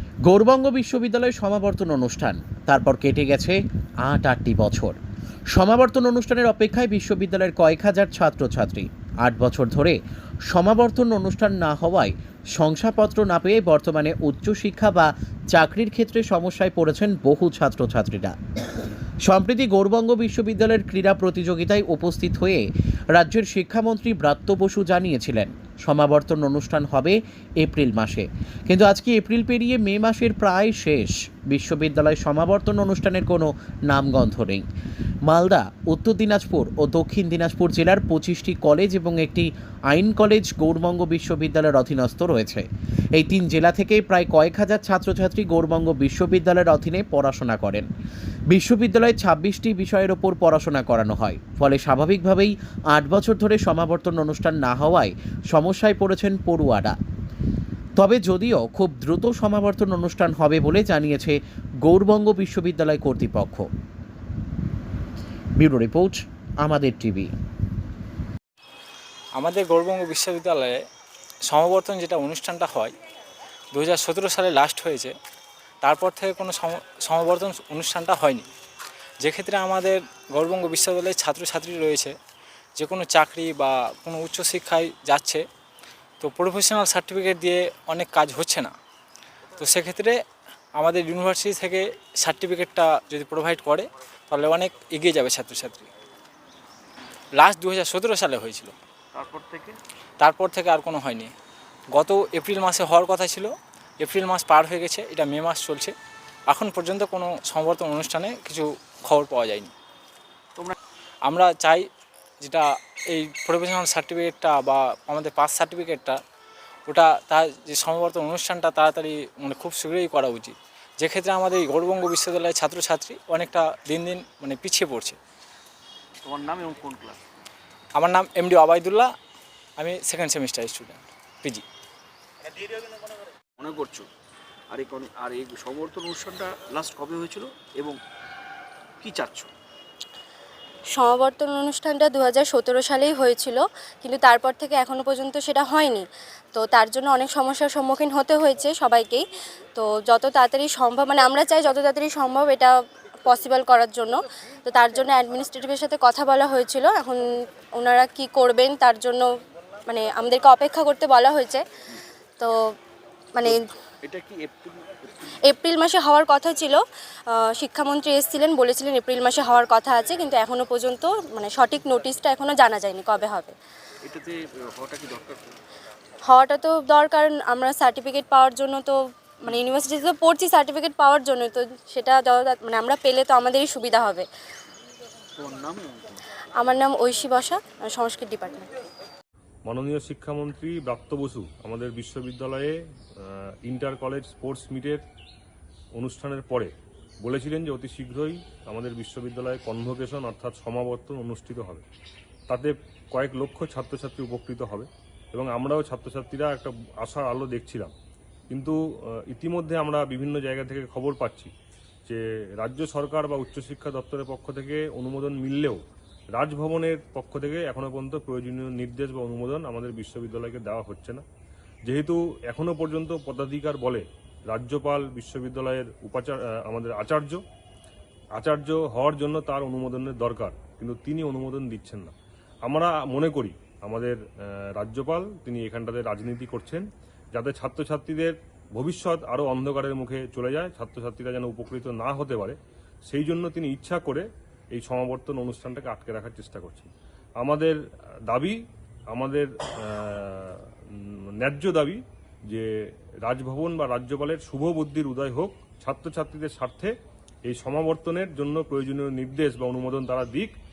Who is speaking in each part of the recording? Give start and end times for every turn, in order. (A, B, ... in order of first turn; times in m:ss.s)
0:00.3-0:05.0 A
0:05.5-0:18.4 A
0:19.3-0:34.6 A
0:35.3-0:47.9 A
0:48.5-0:57.0 A
0:58.0-1:03.7 A
1:05.6-1:07.3 A
1:09.4-1:10.8 B
1:11.5-1:12.9 B
1:13.7-1:15.1 B
1:15.8-1:18.4 B
1:19.2-1:22.1 B
1:22.8-1:25.4 B
1:26.2-1:28.7 B
1:29.6-1:30.2 B
1:30.8-1:35.9 B
1:37.4-1:38.7 B
1:39.1-1:39.8 C
1:40.2-1:41.3 B
1:41.9-1:45.9 B
1:46.5-1:49.7 B
1:51.3-1:51.9 B
1:52.4-1:56.2 B
1:56.9-2:05.2 B
2:06.2-2:07.2 C
2:08.0-2:09.1 B
2:09.8-2:11.6 B
2:13.6-2:14.1 C
2:14.7-2:18.0 C
2:19.0-2:19.5 C
2:20.9-2:29.2 D
2:29.8-2:37.2 D
2:37.8-2:39.3 D
2:39.9-2:41.6 D
2:42.4-2:42.8 D
2:43.4-2:43.6 D
2:43.4-2:45.1 C
2:45.5-2:53.6 D
2:54.0-2:55.5 C
2:56.3-3:04.3 D
3:05.4-3:06.0 C
3:06.6-3:08.7 D
3:09.7-3:12.7 E
3:13.7-3:15.0 E
3:16.0-3:16.7 E
3:17.2-3:21.8 E
3:22.5-3:27.9 E
3:28.5-3:28.8 E
3:29.3-3:31.5 E
3:32.1-3:35.8 E
3:36.4-3:41.2 E
3:41.8-3:47.4 E
3:48.4-3:52.1 E
3:52.6-3:54.2 E
3:54.8-4:02.6 E
4:03.1-4:07.8 E
4:08.3-4:08.6 E
4:09.1-4:10.6 E
4:11.4-4:12.6 E
4:13.2-4:16.9 E
4:17.5-4:20.5 E